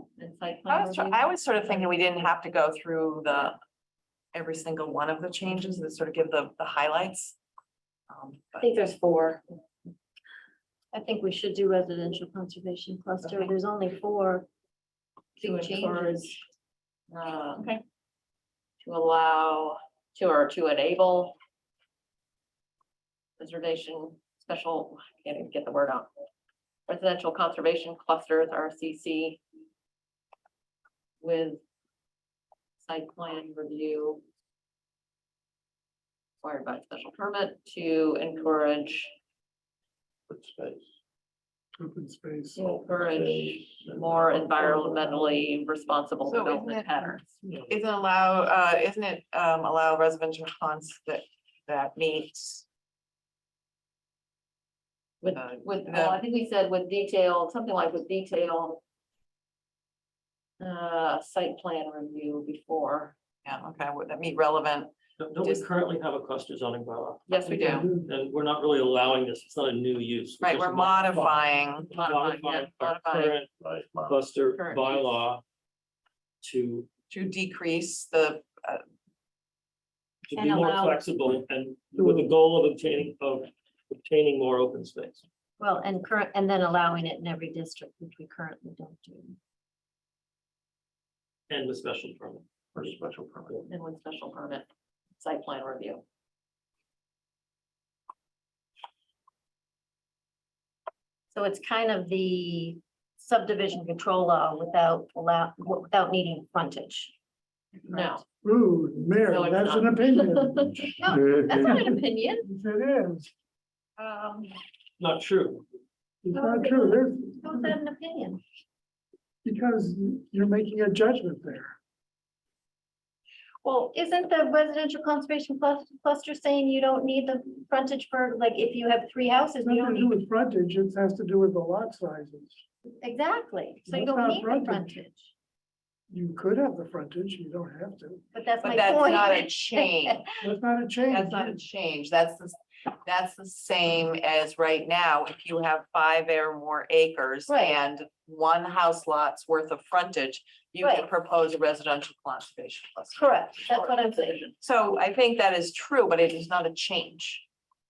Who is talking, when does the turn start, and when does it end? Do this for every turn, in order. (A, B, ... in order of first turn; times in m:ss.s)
0:00.2-0:02.1 A
0:00.7-0:03.6 B
0:04.3-0:07.4 B
0:08.1-0:08.7 B
0:08.6-0:09.4 C
0:10.9-0:14.5 C
0:15.4-0:16.4 A
0:15.4-0:16.4 C
0:17.1-0:17.7 A
0:17.6-0:17.8 B
0:18.8-0:21.4 A
0:23.4-0:26.1 A
0:26.9-0:29.4 A
0:31.2-0:31.6 A
0:32.8-0:34.2 A
0:36.4-0:39.1 A
0:40.3-0:40.8 D
0:41.8-0:42.6 E
0:42.5-0:47.4 A
0:42.6-0:44.8 D
0:46.2-0:47.2 B
0:47.7-0:52.6 B
0:55.2-0:58.8 A
0:55.3-0:56.2 B
1:00.6-1:03.2 A
1:03.4-1:05.6 B
1:05.2-1:07.4 F
1:07.3-1:07.9 A
1:07.4-1:08.1 E
1:08.0-1:13.5 F
1:10.4-1:11.9 B
1:11.9-1:13.4 A
1:13.6-1:14.2 D
1:14.0-1:15.4 F
1:14.5-1:15.1 A
1:16.4-1:16.9 F
1:17.1-1:18.8 B
1:20.3-1:25.2 F
1:20.3-1:21.0 C
1:21.9-1:22.3 E
1:25.6-1:29.4 C
1:31.5-1:32.4 F
1:32.7-1:33.6 D
1:33.7-1:34.7 A
1:35.2-1:36.0 A
1:41.3-1:47.1 C
1:47.9-1:48.2 C
1:47.9-1:48.2 A
1:48.4-1:53.3 E
1:49.2-1:50.9 A
1:51.0-1:52.5 C
1:54.0-1:54.5 B
1:55.0-1:55.6 F
1:56.2-1:57.8 E
1:56.3-1:58.4 C
1:59.4-2:01.8 E
2:03.6-2:10.1 C
2:09.6-2:12.6 E
2:13.0-2:15.3 C
2:13.8-2:14.9 E
2:16.1-2:18.2 E
2:18.3-2:20.2 C
2:18.6-2:20.3 B
2:20.4-2:21.6 E
2:21.1-2:33.9 B
2:27.5-2:27.8 C
2:30.8-2:31.1 C
2:33.1-2:34.5 C
2:34.6-2:37.4 B